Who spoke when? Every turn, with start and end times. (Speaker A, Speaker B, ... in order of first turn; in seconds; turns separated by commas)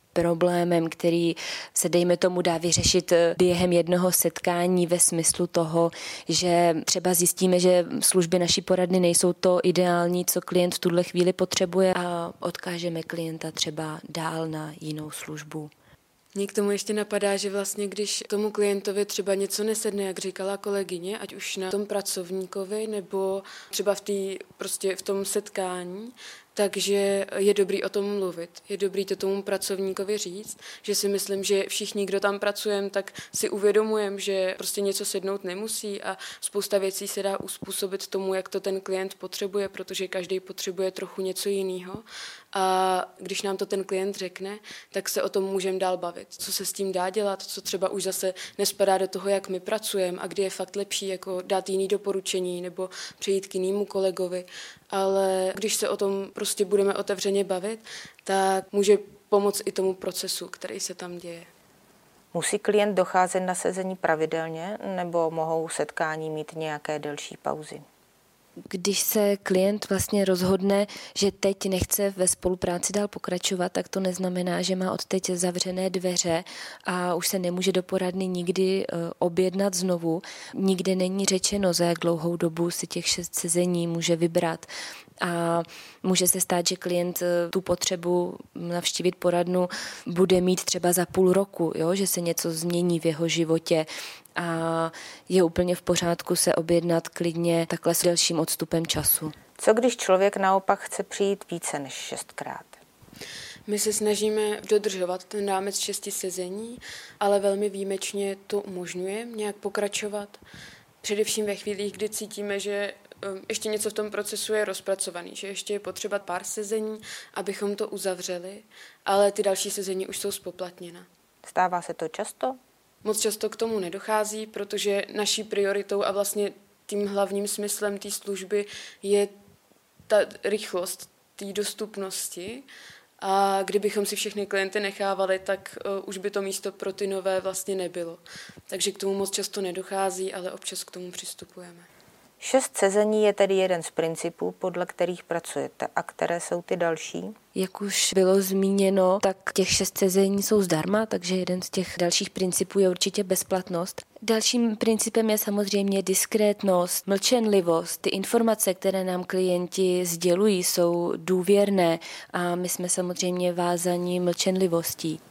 Speaker A: 0.1-15.7, Speaker B: 16.3-61.5, Speaker C: 62.3-67.8, Speaker A: 68.7-84.7, Speaker A: 85.2-99.3, Speaker C: 99.6-102.8, Speaker B: 103.7-110.4, Speaker B: 111.0-121.0, Speaker C: 121.4-122.6, Speaker B: 123.0-129.3, Speaker B: 130.1-132.7, Speaker B: 133.2-141.9, Speaker C: 142.4-147.3, Speaker A: 147.5-165.2